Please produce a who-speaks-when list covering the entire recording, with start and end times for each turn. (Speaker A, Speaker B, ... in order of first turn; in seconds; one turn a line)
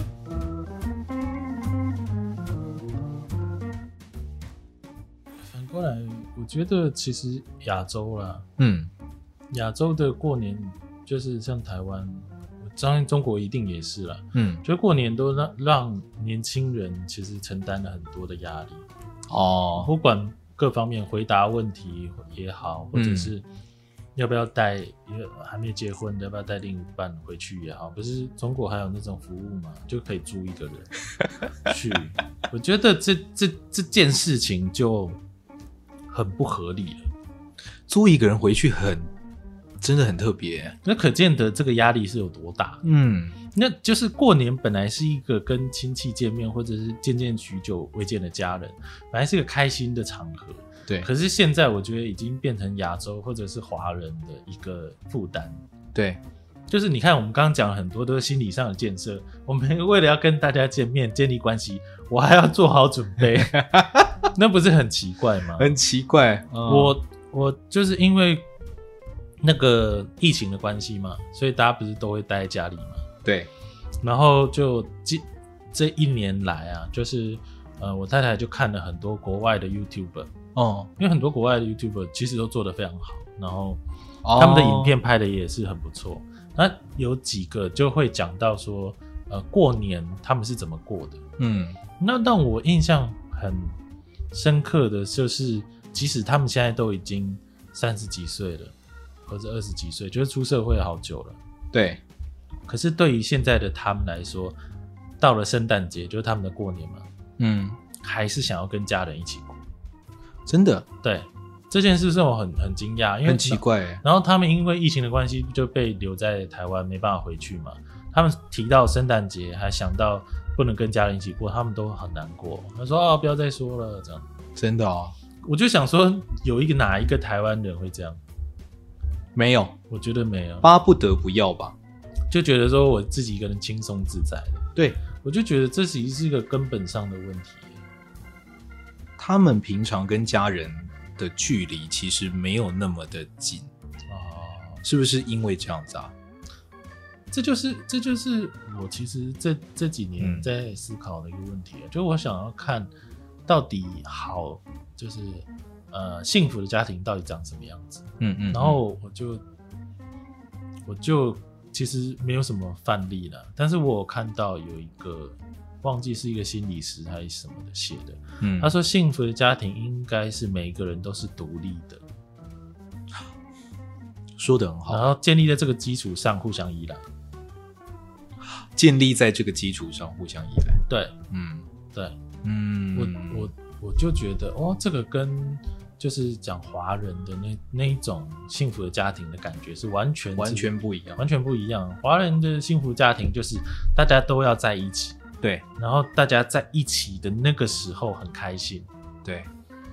Speaker A: 5.5-8.4
Speaker B: 8.6-8.9
Speaker A: 9.5-18.9
Speaker B: 14.3-14.6
Speaker B: 19.3-19.9
Speaker A: 19.8-23.4
Speaker B: 22.9-23.3
Speaker A: 24.1-30.9
Speaker A: 31.6-35.2
Speaker A: 36.1-37.0
Speaker B: 37.9-39.1
Speaker B: 39.8-40.8
Speaker A: 40.8-42.8
Speaker B: 42.8-43.4
Speaker A: 43.5-55.6
Speaker B: 55.9-56.2
Speaker A: 56.7-63.5
Speaker B: 63.5-64.1
Speaker A: 64.3-65.7
Speaker B: 65.6-67.0
Speaker A: 66.6-68.5
Speaker A: 69.4-73.0
Speaker B: 73.2-73.5
Speaker A: 74.0-80.3
Speaker B: 80.5-80.9
Speaker A: 81.0-83.8
Speaker B: 84.2-85.0
Speaker A: 84.3-91.2
Speaker B: 91.4-91.8
Speaker A: 92.0-93.8
Speaker A: 94.3-98.7
Speaker A: 99.3-101.4
Speaker B: 101.7-102.0
Speaker A: 102.7-104.6
Speaker A: 105.2-107.1
Speaker B: 107.4-107.8
Speaker A: 108.0-109.6
Speaker B: 110.5-110.8
Speaker A: 111.0-124.3
Speaker B: 113.2-114.0
Speaker B: 124.5-125.1
Speaker A: 125.4-128.2
Speaker B: 129.3-129.8
Speaker A: 129.9-130.7
Speaker B: 130.6-131.8
Speaker A: 132.3-137.8
Speaker B: 134.8-135.0
Speaker B: 139.2-143.7
Speaker A: 144.1-144.8
Speaker B: 144.8-146.1
Speaker A: 147.3-152.9
Speaker B: 150.2-150.5
Speaker A: 153.5-159.4
Speaker B: 158.2-158.8
Speaker A: 160.8-172.0
Speaker B: 168.4-168.7
Speaker B: 174.4-175.1
Speaker A: 174.9-177.0
Speaker B: 178.6-181.7
Speaker A: 180.9-181.1
Speaker A: 181.9-182.2
Speaker B: 182.4-183.5
Speaker A: 182.9-195.2
Speaker B: 190.3-191.2
Speaker A: 195.8-198.9
Speaker B: 199.2-199.5